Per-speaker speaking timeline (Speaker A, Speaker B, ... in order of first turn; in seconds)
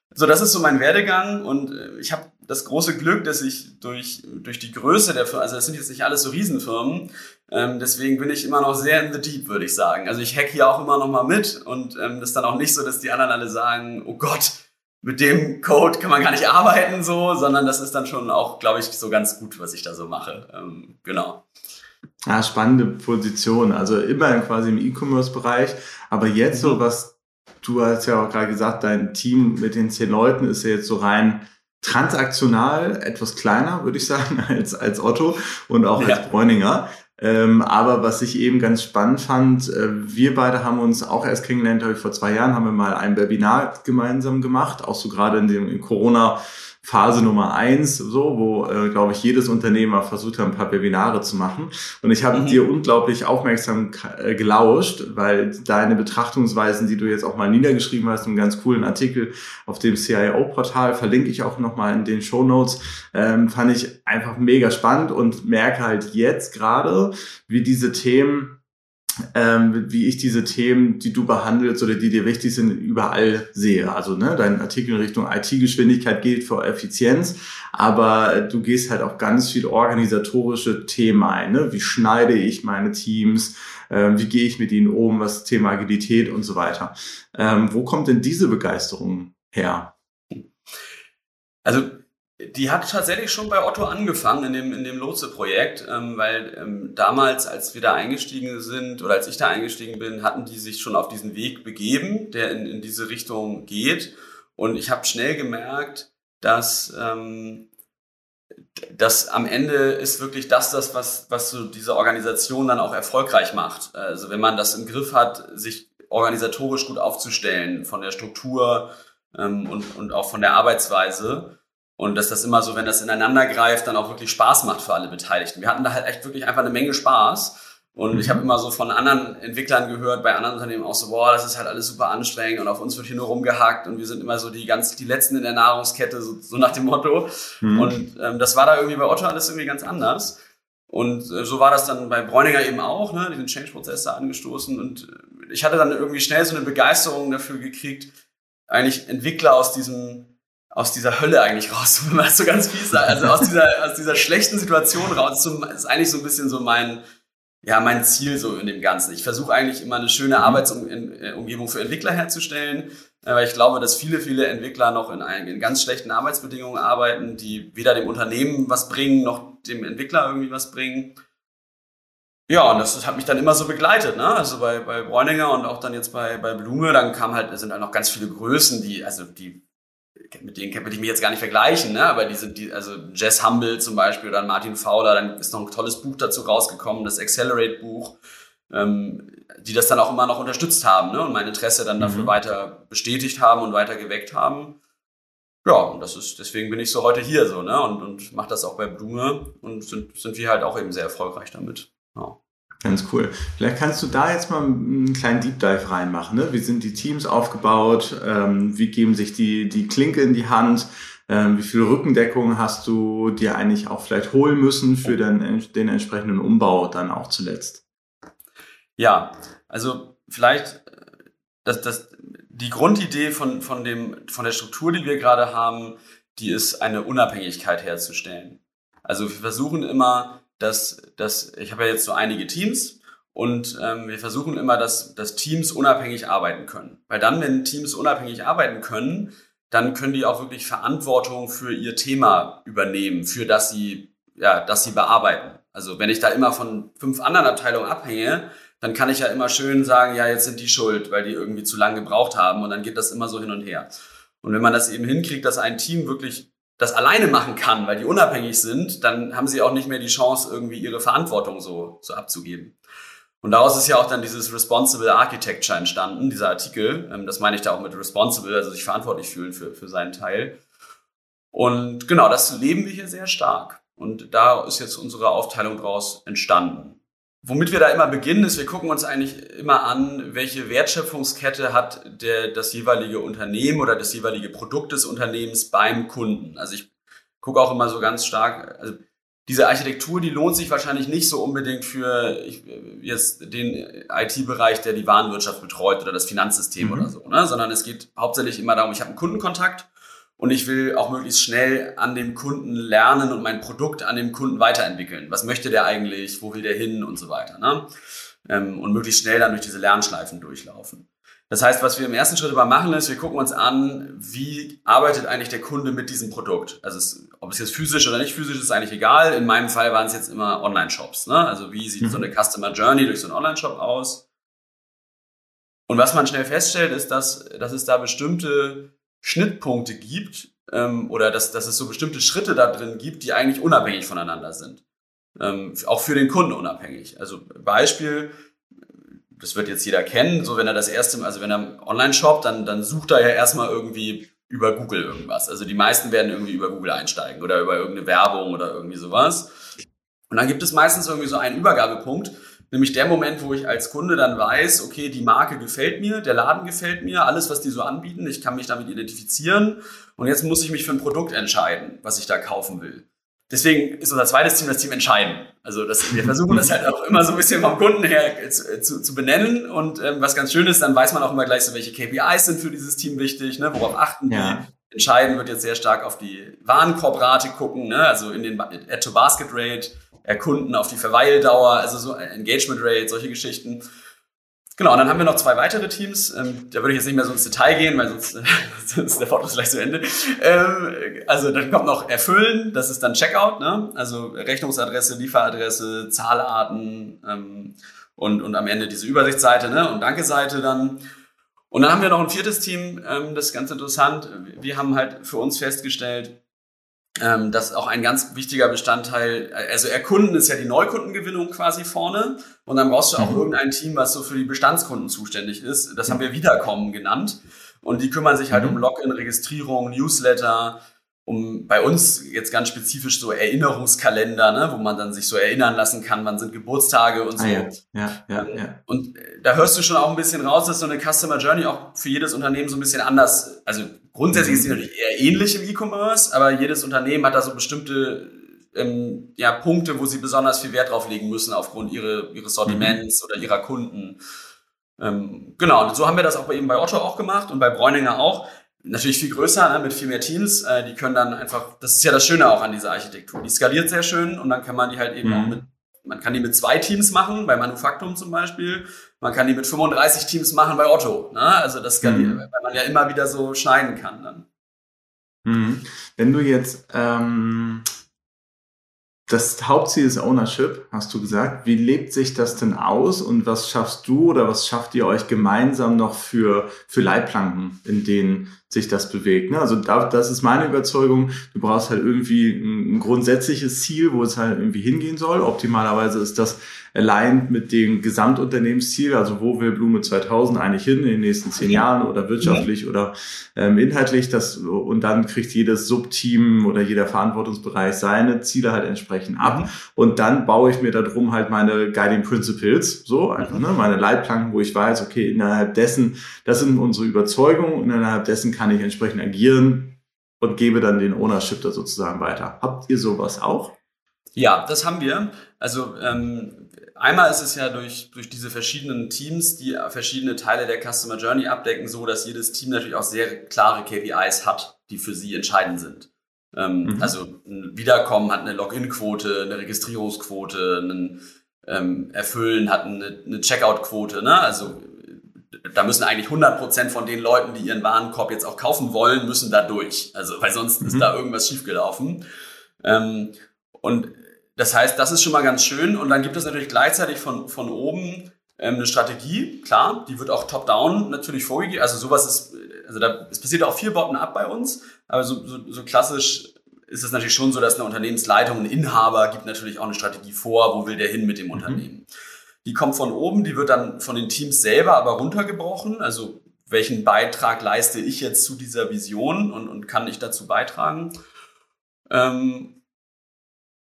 Speaker A: 0.1-21.4, 26.5-26.8, 36.0-36.3, 52.3-52.6, 91.6-107.7, 108.9-148.1, 148.7-157.0, 157.6-171.2, 172.5-179.6, 180.3-188.2, 188.7-194.8, 195.7-202.4, 219.0-220.9, 221.6-262.8, 263.4-270.6, 271.5-286.9, 287.4-307.9, 308.5-324.2, 325.9-334.8, 335.4-338.3, 339.4-349.5, 350.3-383.8, 384.8-401.0, 401.7-406.4, 407.2-427.8, 428.4-444.2, 445.0-464.5, 491.6-491.9, 492.4-492.7, 499.4-499.7, 514.4-542.2, 542.8-562.0, 562.6-571.1, 572.1-572.8
Speaker B: 22.3-68.6, 69.3-89.9, 128.1-128.4, 137.6-137.9, 192.0-192.3, 202.8-217.8, 296.8-297.1, 322.0-322.3, 366.2-366.7, 374.3-374.7, 413.2-413.4, 418.5-418.8, 427.4-428.8, 434.3-434.7, 442.7-443.0, 455.2-455.6, 462.0-462.4, 465.4-467.9, 469.3-513.8, 526.9-527.1, 540.8-541.1, 561.5-561.8